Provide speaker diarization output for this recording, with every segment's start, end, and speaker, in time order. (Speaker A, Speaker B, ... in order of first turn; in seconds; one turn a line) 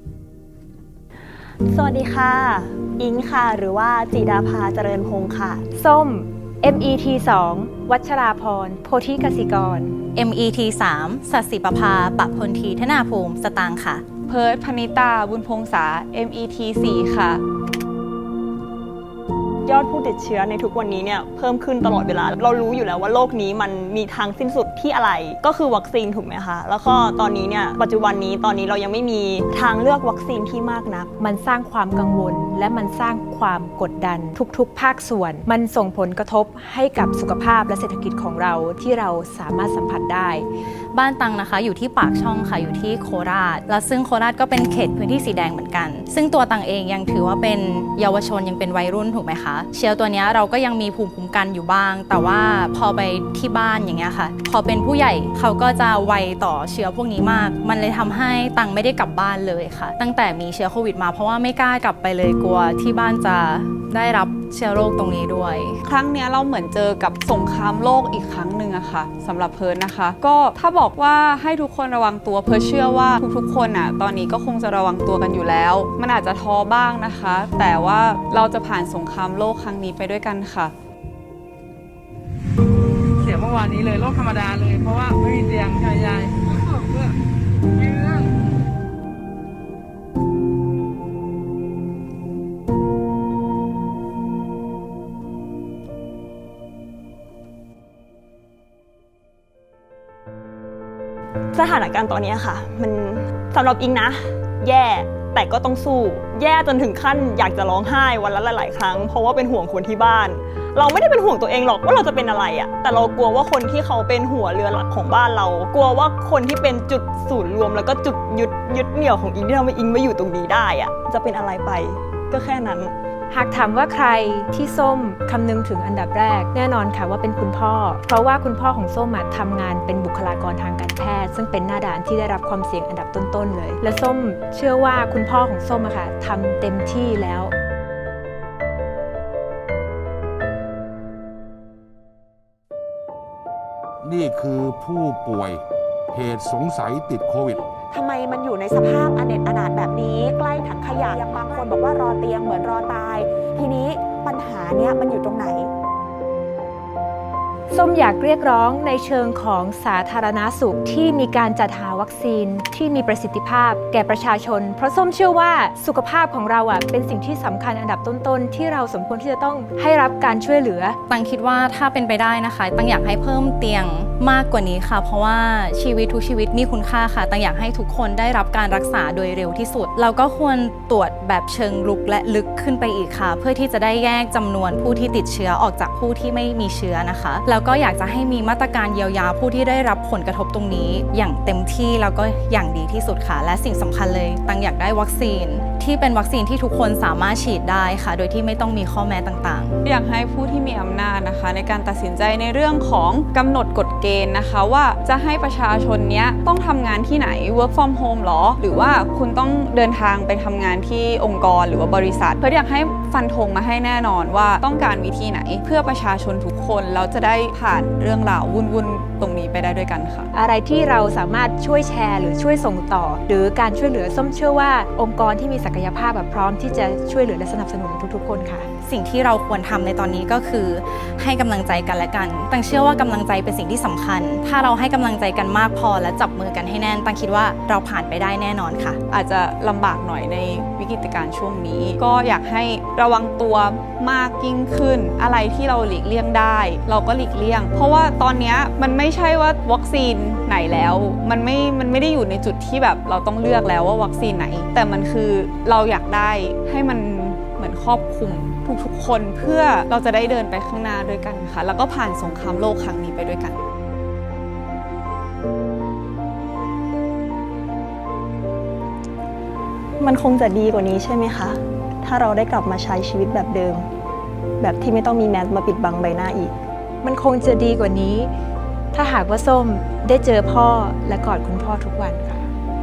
Speaker A: 1.6-5.7
Speaker B: 5.8-10.0
Speaker C: 10.1-14.0
Speaker D: 14.2-17.4
Speaker A: 19.6-31.1
Speaker B: 31.2-40.5
Speaker C: 40.9-65.8
Speaker D: 65.8-80.7
Speaker E: 83.2-87.2
Speaker E: 87.8-88.3
Speaker A: 101.5-122.9
Speaker B: 123.3-137.5
Speaker F: 144.0-147.7
Speaker G: 147.8-155.7
Speaker B: 157.7-171.0
Speaker C: 171.1-199.8
Speaker D: 199.8-220.3
Speaker B: 220.3-228.7
Speaker C: 228.8-239.0
Speaker D: 239.1-263.6
Speaker A: 270.0-273.9
Speaker A: 274.6-276.5
Speaker B: 277.0-278.3
Speaker B: 278.9-282.5